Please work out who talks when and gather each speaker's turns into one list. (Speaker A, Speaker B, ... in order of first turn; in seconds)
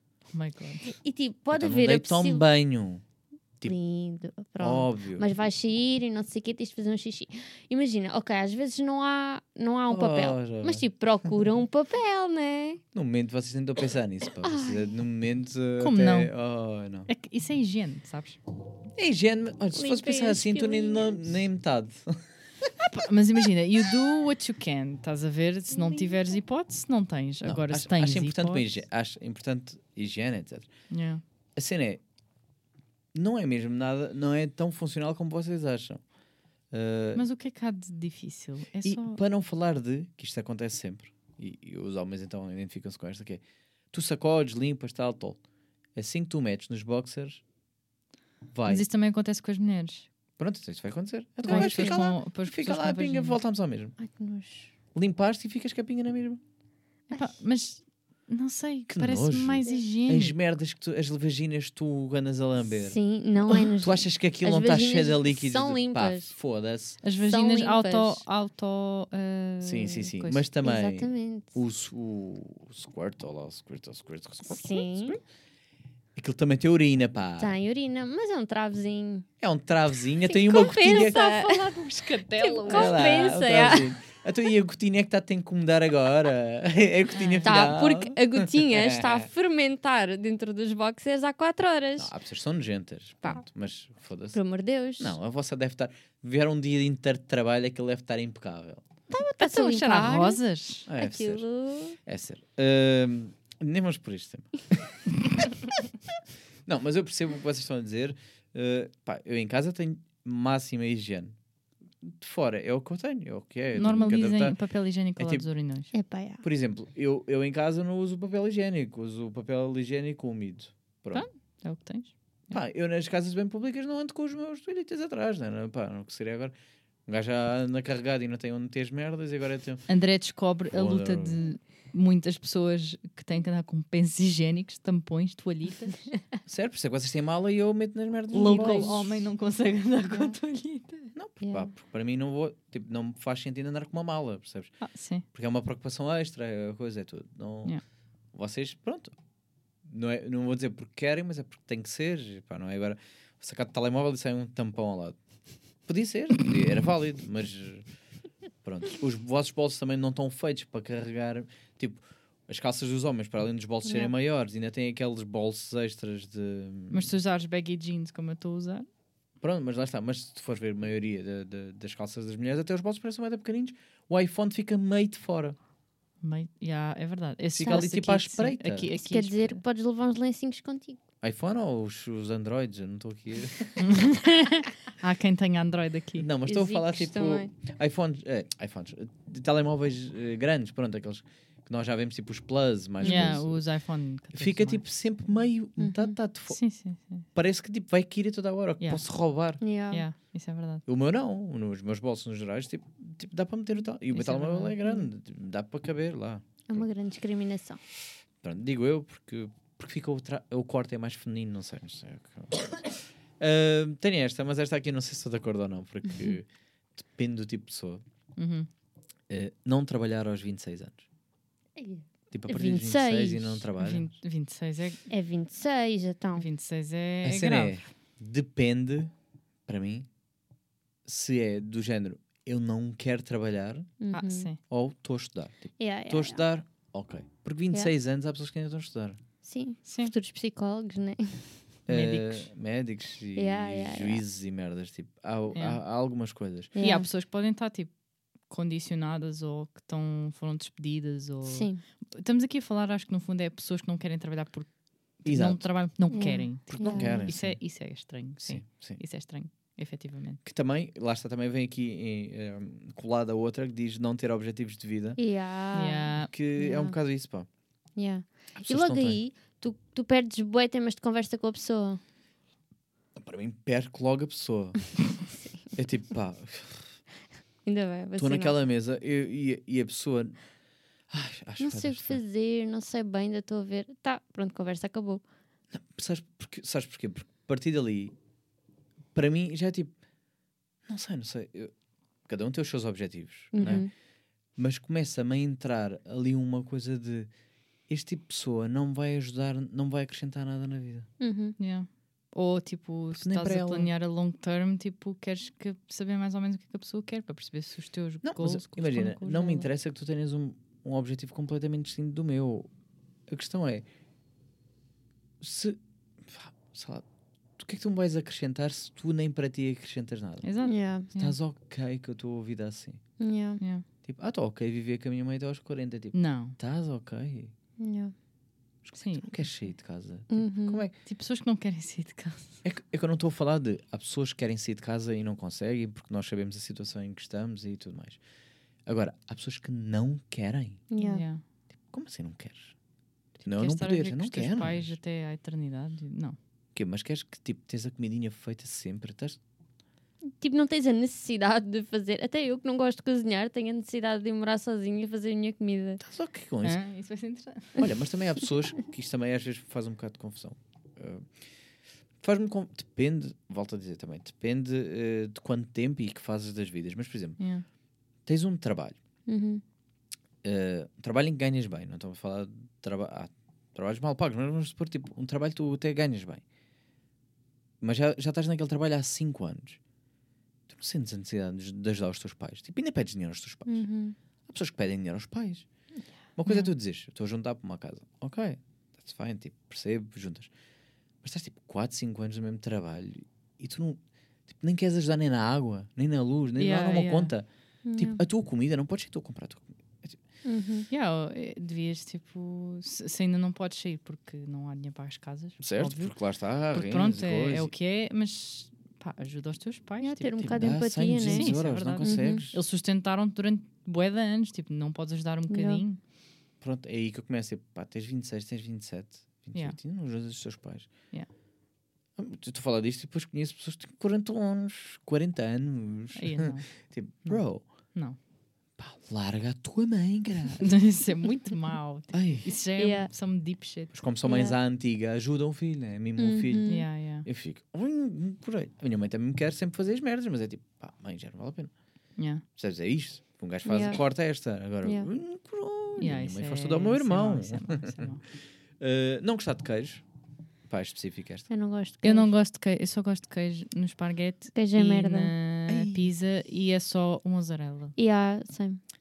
Speaker A: 0.3-0.9, 15.8-16.3, 17.1-18.4, 22.9-28.7, 30.9-31.2, 37.1-39.2, 48.7-50.1, 51.4-53.4, 57.1-60.3, 67.0-70.4, 80.8-83.0, 87.1-87.7, 99.4-100.9, 113.8-115.9, 121.2-122.6, 129.9-136.1, 138.3-141.1, 144.8-145.2, 166.9-168.9, 176.2-179.6, 183.8-186.3, 193.0-195.3, 196.5-197.3, 199.9-200.8, 204.1-205.0, 218.3-218.7, 223.8-225.1, 226.4-227.8, 234.1-234.6, 239.9-240.1, 241.9-242.5, 245.5-245.8, 246.8-247.9, 248.4-260.4, 265.7-266.3, 301.6-309.7, 320.4-321.4, 323.6-323.8, 326.1-326.6, 329.0-329.6, 331.0-332.6, 341.0-341.4, 343.4-346.4, 356.6-357.8, 367.4-367.6, 386.4-386.7, 396.6-397.3, 400.9-416.0, 426.1-427.4, 430.6-433.9, 436.7-437.2, 442.2-442.4, 446.0-448.2, 452.0-457.9
Speaker B: 0.9-2.4, 3.6-12.8, 14.4-14.9, 19.7-21.3, 25.7-26.3, 51.4-52.0, 54.0-54.7, 62.7-66.3, 67.2-68.2, 70.6-71.6, 74.4-75.2, 77.4-79.3, 80.2-81.8, 82.3-83.9, 87.4-92.1, 94.3-95.2, 99.1-100.4, 101.0-102.0, 113.8-114.2, 115.9-116.4, 138.3-139.0, 141.4-141.7, 163.8-164.1, 177.6-177.9, 178.9-181.0, 186.4-187.5, 193.0-193.4, 195.8-196.2, 199.6-200.0, 206.7-207.8, 221.8-223.6, 225.1-226.5, 234.0-234.5, 235.8-236.4, 239.4-241.7, 243.3-244.2, 246.8-247.1, 251.4-251.8, 256.1-257.3, 265.2-267.0, 267.9-272.0, 277.6-278.6, 281.6-285.2, 293.5-293.9, 301.2-301.6, 320.6-321.1, 323.2-323.6, 327.8-328.1, 330.3-330.8, 340.9-341.2, 350.3-356.0, 369.3-369.6, 383.6-384.2, 397.8-398.2, 400.4-400.9, 410.0-412.4, 415.5-415.8, 432.8-433.1, 434.2-434.6, 436.2-436.9, 443.6-444.0, 444.8-445.1, 451.5-452.3, 454.5-455.3, 457.9-458.8
Speaker C: 1.5-3.0, 4.6-5.2, 9.9-10.9, 12.9-17.1, 18.9-22.2, 27.4-30.9, 31.6-32.0, 33.1-36.0, 36.7-37.2, 38.8-45.4, 45.9-47.4, 48.5-48.8, 50.4-53.9, 54.9-56.4, 58.9-67.0, 69.6-75.2, 76.1-77.5, 79.4-81.2, 82.7-89.3, 92.0-94.4, 95.0-98.8, 100.8-101.4, 102.0-105.6, 106.7-111.3, 112.0-114.6, 115.2-115.5, 116.4-121.2, 122.5-126.5, 127.0-129.9, 130.7-131.4, 136.4-139.2, 141.1-147.8, 148.3-149.1, 149.8-155.2, 155.8-157.9, 158.6-167.1, 169.4-175.6, 177.5-178.9, 181.2-183.8, 186.2-193.6, 194.3-196.6, 197.3-199.6, 200.8-206.8, 208.4-218.0, 219.3-221.0, 222.3-224.1, 227.2-229.1, 229.7-230.1, 231.0-233.9, 234.6-239.2, 241.8-246.7, 255.2-256.0, 256.6-257.7, 258.4-259.0, 260.4-265.2, 266.2-267.5, 268.5-269.2, 273.1-275.1, 275.7-277.0, 278.1-280.4, 281.1-282.2, 285.7-288.1, 289.1-289.9, 290.9-291.7, 292.2-293.9, 294.5-297.3, 297.9-301.1, 303.1-303.9, 308.2-312.7, 313.3-313.9, 315.4-317.0, 317.6-323.0, 324.0-327.5, 328.9-330.9, 332.6-338.2, 338.8-340.8, 341.8-342.8, 343.4-345.0, 346.7-349.4, 356.0-356.8, 357.8-361.5, 362.2-367.4, 368.2-369.0, 370.4-376.4, 377.8-379.8, 380.7-383.8, 384.5-385.7, 386.4-390.5, 391.2-400.2, 405.6-407.7, 410.4-412.6, 416.6-420.9, 422.2-427.6, 428.8-430.7, 432.1-432.5, 433.9-441.7, 442.5-448.1, 448.8-450.0, 450.7-451.5, 455.7-456.1